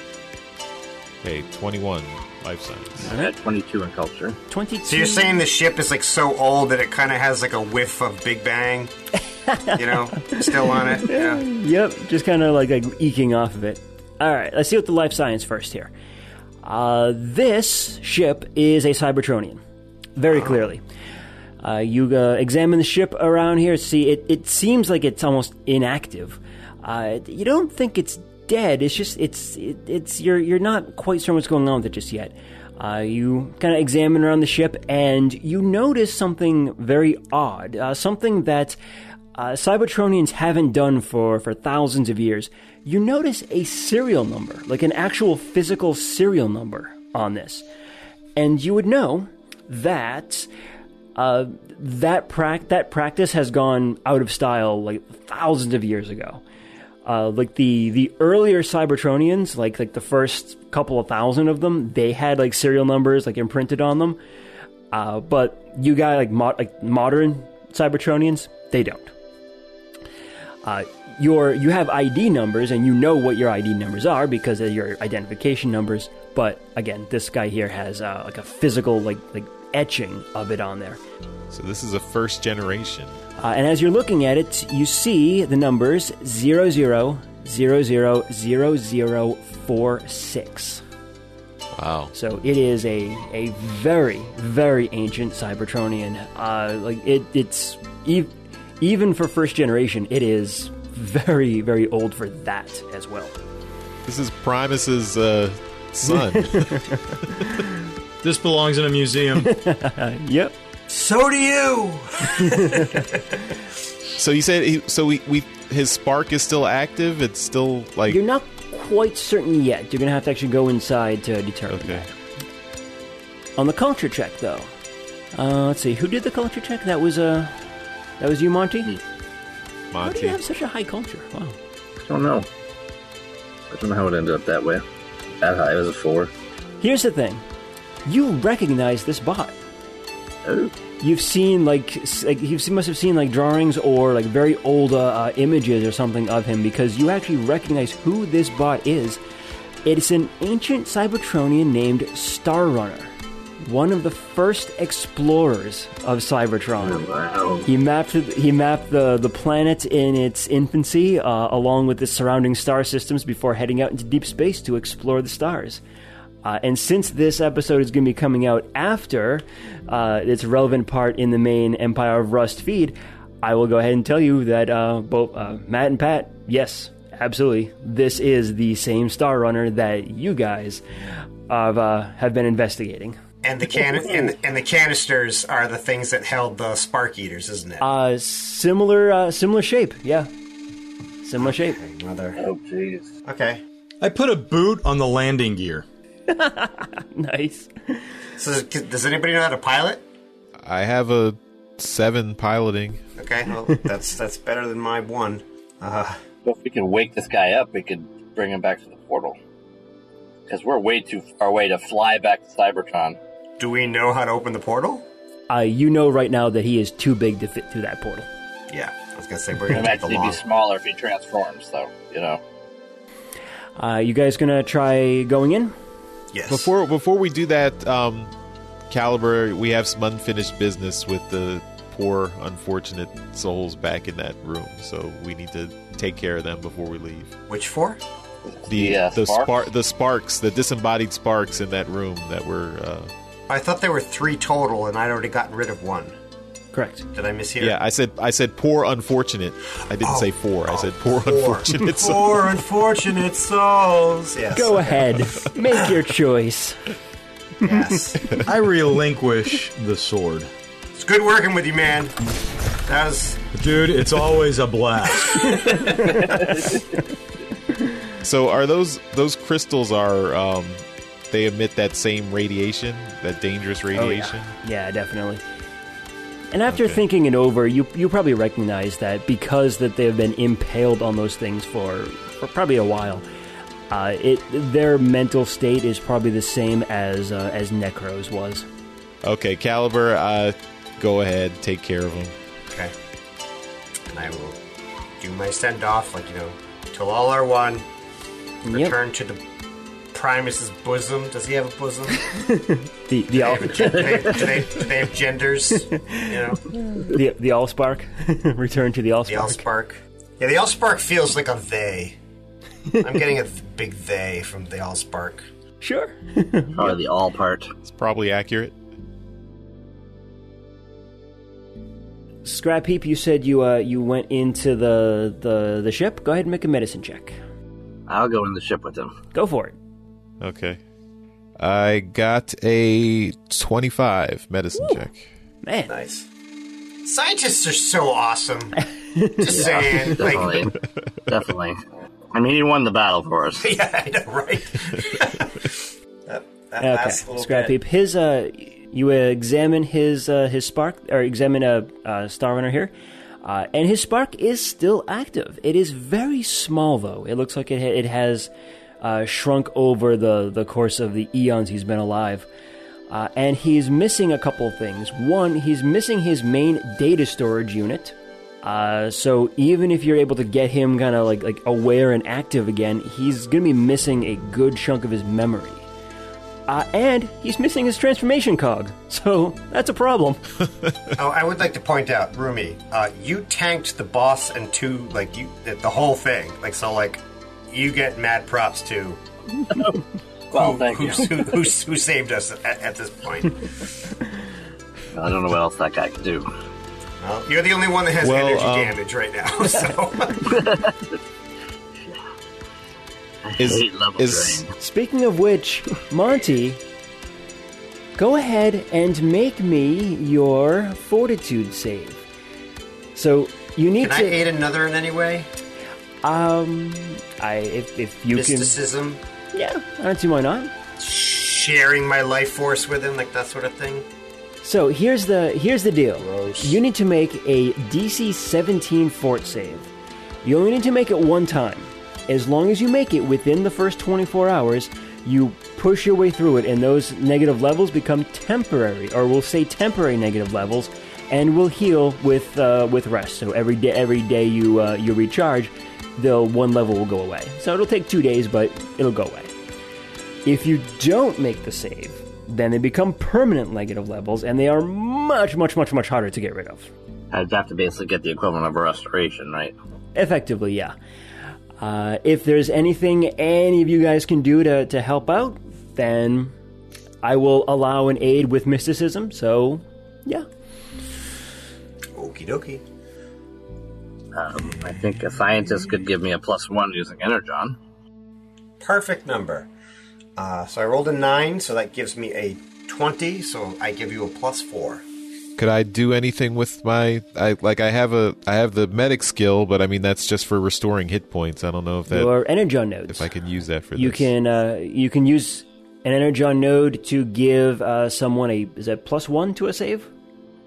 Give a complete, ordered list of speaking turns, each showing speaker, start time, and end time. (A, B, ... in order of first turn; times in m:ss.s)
0:01.2-0:03.1 A
0:03.0-0:03.3 B
0:03.1-0:04.4 C
0:04.5-0:05.4 B
0:04.8-0:08.9 D
0:09.5-0:15.9 B
0:09.7-0:11.4 D
0:16.6-0:19.6 B
0:20.2-0:20.8 B
0:21.6-0:38.8 B
0:39.3-0:47.6 B
0:48.4-0:50.5 B
0:51.1-0:56.4 B
0:57.0-1:04.2 B
1:04.9-1:09.1 B
1:10.6-1:21.0 B
1:21.5-1:23.2 A
1:23.4-1:30.8 B
1:31.7-1:32.1 A
1:32.1-1:43.3 B
1:44.0-1:47.5 A
1:46.0-1:47.7 B
1:48.2-1:49.5 E
1:49.4-1:50.5 B
1:50.9-1:53.1 D
1:52.4-1:53.0 B
1:54.2-1:58.2 A
1:58.1-2:02.1 B
2:01.7-2:02.0 A
2:03.6-2:04.7 B
2:05.3-2:07.6 B
2:08.2-2:08.9 B
2:09.9-2:10.4 A
2:10.0-2:11.6 B
2:12.0-2:12.5 C
2:13.7-2:14.8 C
2:15.4-2:16.3 C
2:16.8-2:17.4 B
2:18.0-2:19.6 B
2:20.4-2:20.7 C
2:21.0-2:29.2 B
2:29.8-2:37.0 B
2:36.8-2:37.7 C
2:37.6-2:45.8 B
2:46.4-3:00.8 B
3:01.5-3:03.2 B
3:03.4-3:07.8 D
3:07.8-3:10.3 B
3:11.2-3:11.8 B
3:11.4-3:12.4 D
3:12.4-3:13.1 C
3:13.2-3:13.6 D
3:14.0-3:15.8 E
3:16.3-3:18.0 B
3:18.4-3:20.0 D
3:20.6-3:23.0 A
3:23.2-3:26.2 D
3:26.4-3:29.4 C
3:30.5-3:33.2 C
3:33.6-3:35.0 D
3:35.5-3:38.3 B
3:38.7-3:40.4 D
3:39.7-3:42.4 C
3:43.8-3:45.7 B
3:46.3-3:46.7 D
3:46.5-3:48.3 A
3:48.9-3:57.3 A
3:57.5-3:58.0 D
3:58.5-3:59.6 C
3:58.7-4:03.1 A
4:03.5-4:06.1 D
4:06.7-4:07.0 B
4:07.1-4:07.8 D
4:07.6-4:12.4 A
4:10.0-4:15.2 D
4:14.5-4:16.8 B
4:17.6-4:18.0 B
4:17.6-4:18.4 D
4:18.4-4:20.5 E
4:21.0-4:22.2 D
4:22.8-4:23.4 D
4:23.5-4:25.8 E
4:26.0-4:26.6 C
4:28.2-4:34.5 A
4:33.9-4:35.4 B
4:36.5-4:43.2 B
4:36.7-4:37.0 A
4:43.9-4:48.6 B
4:49.2-4:52.3 A
4:54.1-4:54.6 D
4:55.2-4:57.8 D
4:58.6-4:59.4 D
4:58.7-4:58.9 B
5:00.1-5:02.3 D
5:02.3-5:04.8 B
5:03.3-5:06.7 D
5:03.9-5:04.4 C
5:05.9-5:09.6 B
5:09.3-5:12.2 D
5:13.0-5:15.4 D
5:15.8-5:16.9 B
5:16.7-5:17.7 C
5:17.8-5:18.7 A
5:22.4-5:27.4 B
5:28.1-5:29.1 C
5:29.3-5:29.8 B
5:30.4-5:30.8 A
5:31.6-5:35.3 A
5:35.6-5:35.9 B
5:35.9-5:36.3 D
5:37.0-5:38.8 D
5:39.1-5:40.0 B
5:39.4-5:40.7 D
5:39.5-5:40.7 C
5:41.3-5:41.8 C
5:42.3-5:43.7 C
5:43.6-5:47.8 D
5:46.8-5:58.5 B
5:59.0-6:02.5 B
6:03.1-6:15.8 B
6:16.7-6:20.4 B
6:21.2-6:29.2 D
6:29.7-6:31.7 C
6:30.5-6:33.6 D
6:35.1-6:36.5 C
6:37.2-6:40.7 D
6:38.2-6:39.0 A
6:40.5-6:41.1 C
6:43.4-6:44.7 C
6:43.6-6:44.6 A
6:44.8-6:46.8 B
6:48.2-6:52.2 B
6:53.1-6:54.4 B
6:54.0-6:55.5 D
6:56.2-6:58.8 B
6:58.3-6:59.2 D
6:59.5-7:00.7 B
7:01.0-7:04.0 D
7:04.6-7:09.9 B
7:06.2-7:06.8 E
7:10.4-7:29.5 B
7:30.4-7:36.9 B
7:37.3-7:39.7 C
7:40.1-7:40.9 B
7:41.8-7:46.5 B
7:47.2-7:50.4 B
7:52.1-7:52.8 D
7:54.3-7:57.8 C
7:58.8-7:59.7 D
8:00.4-8:05.0 D
8:05.6-8:12.3 A
8:12.1-8:13.3 B
8:13.1-8:14.3 A
8:13.9-8:20.1 B